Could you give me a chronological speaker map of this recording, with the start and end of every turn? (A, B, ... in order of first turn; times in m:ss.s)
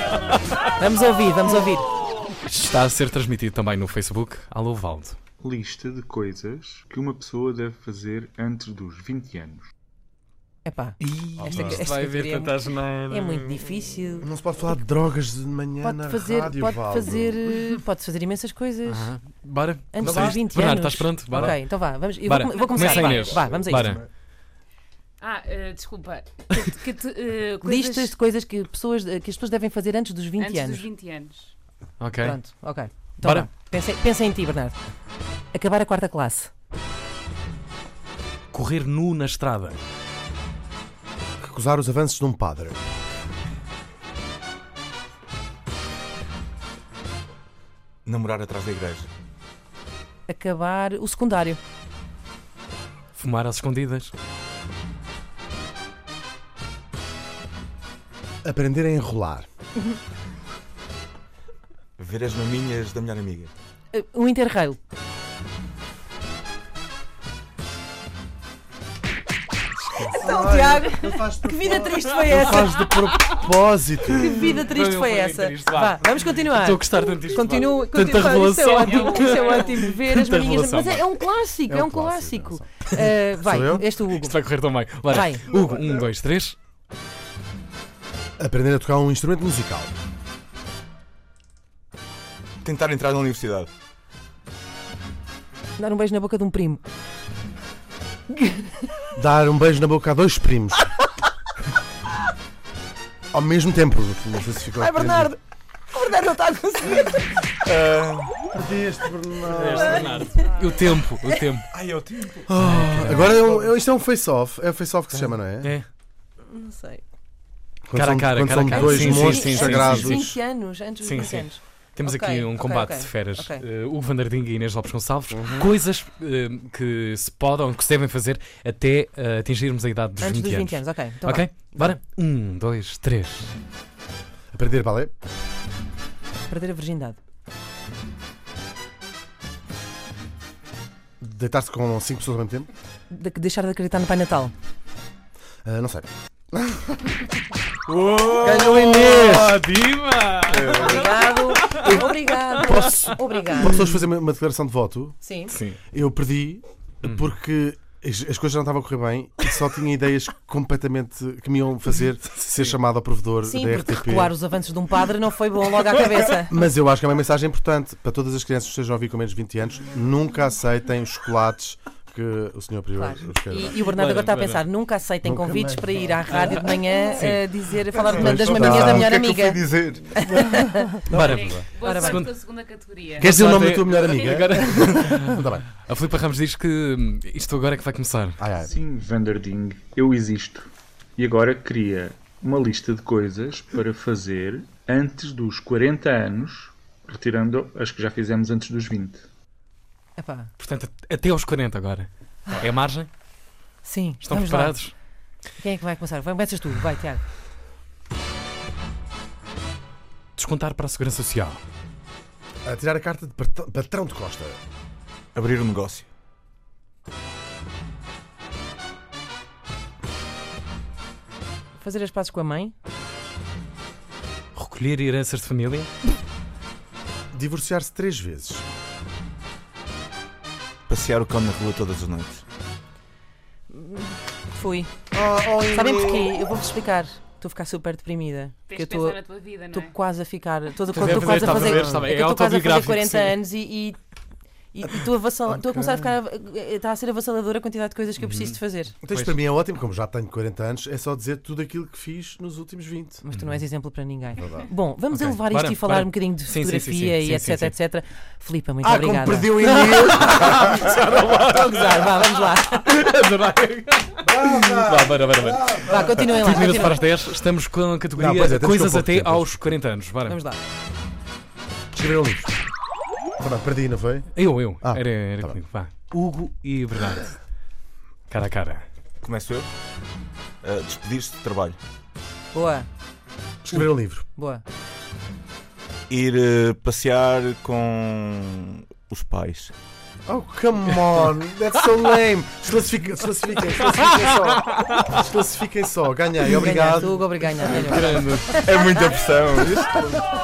0:00.8-0:01.9 A
0:02.4-0:05.2 B
0:05.4-0:09.7 C
0:10.6-0:14.3 A
0:11.0-0:13.5 B
0:11.4-0:11.9 D
0:14.2-0:17.4 D
0:15.8-0:19.1 A
0:18.9-0:24.0 B
0:19.9-0:24.0 A
0:20.0-0:20.4 D
0:22.5-0:23.5 E
0:23.4-0:24.0 D
0:25.2-0:28.2 E
0:27.6-0:30.9 A
0:30.4-0:31.6 E
0:32.0-0:32.4 B
0:32.2-0:34.8 A
0:33.2-0:33.5 B
0:35.5-0:36.5 A
0:38.5-0:39.8 B
0:41.4-0:42.8 D
0:48.1-0:49.1 F
0:50.3-0:51.6 A
0:53.2-0:54.1 B
0:58.4-0:59.5 D
1:02.0-1:03.5 F
1:03.9-1:04.8 A
1:09.8-1:10.2 B
1:10.1-1:13.4 A
1:10.2-1:14.5 D
1:14.1-1:24.4 A
1:14.4-1:21.1 B
1:18.6-1:19.9 E
1:21.7-1:22.7 D
1:23.4-1:23.8 D
1:24.1-1:26.6 B
1:25.1-1:25.4 A
1:28.4-1:29.9 D
1:32.6-1:33.7 F
1:35.8-1:36.8 A
1:38.3-1:38.9 A
1:39.2-1:40.9 D
1:43.3-1:45.3 D
1:44.8-1:45.4 A
1:45.9-1:47.4 A
1:47.6-1:48.4 F
1:48.5-1:50.2 D
1:49.5-1:51.7 B
1:49.6-1:50.7 A
1:51.7-1:52.5 F
1:52.5-1:55.7 D
1:52.6-1:53.4 B
1:53.3-1:53.7 F
1:55.2-1:55.9 B
1:56.5-1:57.0 A
1:57.9-2:00.2 D
1:57.9-2:00.4 B
1:58.7-2:03.6 A
2:01.0-2:13.5 B
2:05.3-2:05.7 D
2:10.2-2:12.0 A
2:14.5-2:15.1 D
2:16.5-2:17.2 A
2:21.2-2:22.7 D
2:23.1-2:24.5 A
2:25.6-2:27.3 D
2:27.9-2:32.1 B
2:28.3-2:29.6 D
2:30.5-2:31.0 F
2:30.6-2:33.8 A
2:32.7-2:35.2 D
2:32.7-2:33.0 B
2:35.2-2:35.6 A
2:35.5-2:35.8 B
2:35.9-2:44.3 D
2:37.0-2:37.3 B
2:43.4-2:46.6 A
2:46.5-2:53.8 D
2:53.0-3:01.0 A
2:53.8-2:54.6 B
2:55.2-2:56.6 D
2:56.3-2:57.4 B
2:58.0-3:00.3 F
2:58.1-2:59.1 D
3:00.3-3:01.7 D
3:01.1-3:02.3 B
3:01.2-3:03.4 E
3:01.8-3:02.3 A
3:03.2-3:05.7 D
3:03.2-3:08.4 B
3:08.4-3:08.7 D
3:08.6-3:19.3 C
3:20.2-3:20.5 A
3:20.6-3:23.1 B
3:23.8-3:24.8 A
3:24.2-3:24.9 B
3:25.6-3:27.2 A
3:30.4-3:31.6 B
3:32.6-3:34.6 D
3:35.4-3:36.1 F
3:41.8-3:42.7 A
3:44.6-3:45.9 B
3:47.3-3:48.6 D
3:50.9-3:52.4 F
3:53.7-3:54.9 A
3:55.1-3:56.3 D
3:55.6-3:59.2 A
3:58.7-3:59.9 E
3:59.7-4:04.0 A
4:00.9-4:03.4 B
4:01.7-4:02.0 D
4:04.7-4:09.0 A
4:05.0-4:06.1 D
4:08.2-4:09.3 B
4:09.0-4:13.2 D
4:13.2-4:23.0 A
4:13.3-4:13.6 B
4:14.4-4:14.7 D
4:15.1-4:17.8 B
4:18.8-4:20.8 D
4:19.8-4:30.4 B
4:24.2-4:26.4 D
4:25.8-4:27.0 A
4:28.2-4:29.8 D
4:30.3-4:30.6 A
4:31.9-4:32.5 D
4:33.4-4:34.3 D
4:34.4-4:37.4 B
4:34.8-4:35.6 D
4:38.3-4:38.8 B
4:39.2-4:39.7 F
4:40.6-4:41.8 F
4:42.5-4:42.9 A
4:43.6-4:44.3 D
4:44.4-4:44.6 A
4:46.1-4:49.7 F
4:50.3-4:57.9 D
4:56.5-4:58.7 A
4:57.6-4:58.6 B
4:57.6-5:00.2 F
4:59.8-5:00.1 D